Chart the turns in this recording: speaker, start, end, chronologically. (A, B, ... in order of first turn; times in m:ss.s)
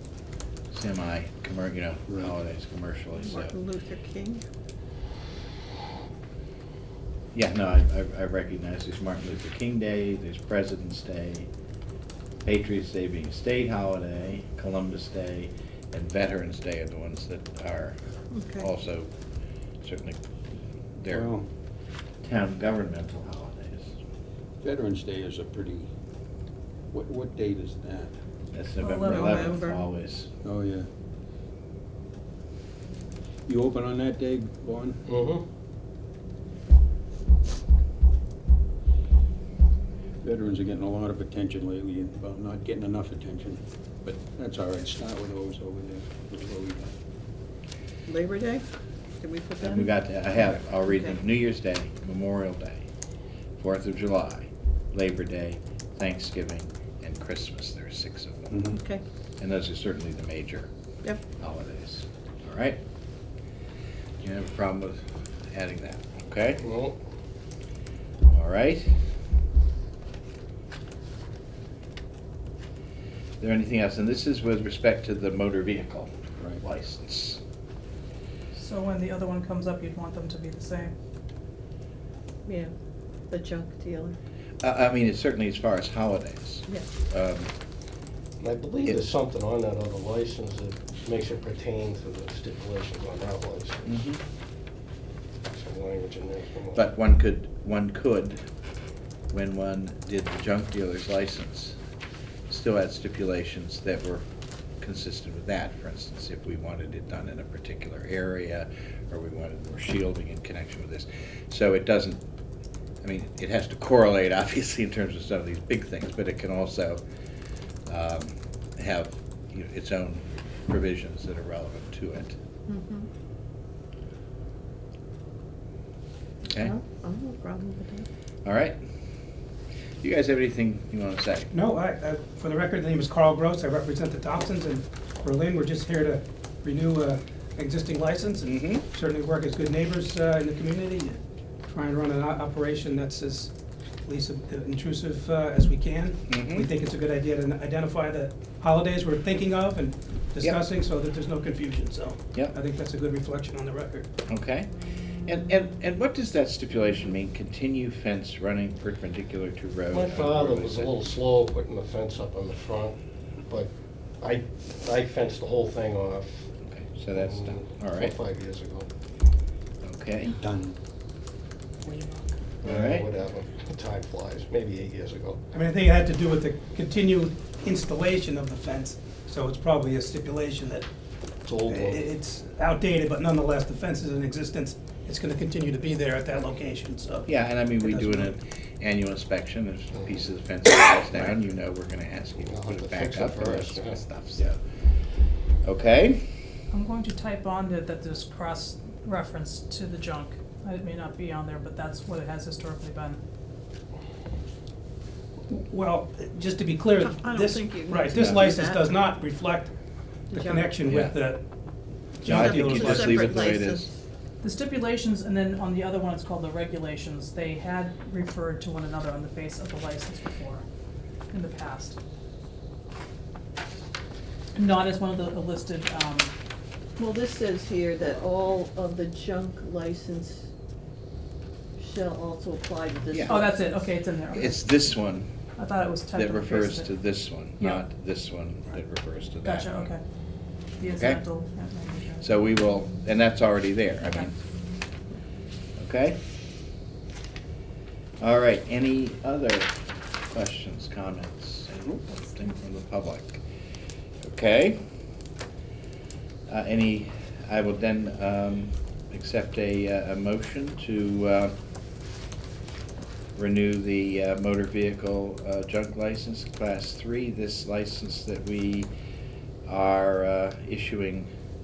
0:00.7-0:03.6 A
0:02.1-0:02.4 B
0:03.2-0:04.4 C
0:07.3-0:11.5 A
0:12.4-0:18.0 A
0:18.3-0:18.7 C
0:18.6-0:19.1 A
0:19.8-0:20.2 A
0:21.0-0:21.3 A
0:21.1-0:21.5 B
0:22.2-0:24.0 A
0:24.6-0:25.9 B
0:26.9-0:28.1 B
0:28.5-0:30.3 A
0:28.8-0:29.6 D
0:29.0-0:29.9 C
0:30.4-0:30.9 B
0:33.5-0:35.0 B
0:35.1-0:35.4 E
0:40.2-0:47.0 B
0:48.1-0:48.6 C
0:49.2-0:50.0 C
0:49.6-0:52.9 A
0:50.9-0:51.2 C
0:53.6-0:58.6 A
0:58.5-0:58.8 B
0:58.6-0:59.0 C
0:59.4-1:00.7 A
1:01.3-1:02.8 A
1:04.2-1:06.7 A
1:06.6-1:07.0 E
1:08.2-1:09.0 A
1:13.4-1:17.4 A
1:18.5-1:20.9 D
1:22.5-1:22.7 C
1:23.3-1:24.2 C
1:24.6-1:27.5 A
1:28.4-1:34.0 E
1:28.8-1:29.1 A
1:33.9-1:34.2 A
1:35.5-1:36.8 E
1:36.8-1:38.4 A
1:39.3-1:41.8 A
1:42.5-1:44.2 A
1:44.8-1:52.2 A
1:53.0-1:57.0 A
1:57.9-2:02.4 A
2:02.7-2:03.1 C
2:06.5-2:08.1 C
2:08.4-2:08.8 A
2:10.0-2:11.5 A
2:11.5-2:23.5 F
2:24.1-2:34.1 F
2:26.3-2:26.7 A
2:34.3-2:40.9 A
2:39.9-2:46.5 E
2:46.6-2:48.2 A
2:47.2-2:48.9 E
2:49.8-2:50.4 A
2:50.4-2:50.8 B
2:51.8-2:52.4 C
2:52.6-2:55.4 E
2:52.6-2:53.1 A
2:55.5-3:00.9 F
3:01.4-3:02.1 E
3:01.7-3:08.3 F
3:07.3-3:14.6 A
3:12.4-3:14.0 E
3:15.6-3:16.3 A
3:16.7-3:23.2 D
3:25.5-3:29.7 F
3:26.9-3:28.9 C
3:30.3-3:30.8 C
3:30.3-3:31.4 F
3:30.9-3:31.2 A
3:32.2-3:33.5 F
3:32.2-3:33.9 A
3:32.2-3:33.9 C
3:34.4-3:40.6 D
3:41.3-3:42.0 D
3:44.6-3:46.3 D
3:47.0-3:50.5 C
3:51.8-3:53.6 C
3:53.1-3:53.5 A
3:53.3-3:54.6 D
3:54.3-3:55.3 A
3:55.6-3:56.9 D
3:56.1-3:59.9 A
3:57.6-3:57.8 D
3:59.4-4:00.0 D
4:00.8-4:02.3 D
4:01.0-4:01.2 A
4:02.2-4:04.4 A
4:05.8-4:06.2 A
4:08.2-4:13.4 A
4:14.2-4:14.8 A
4:16.5-4:21.6 A
4:23.4-4:28.9 A
4:29.7-4:31.3 A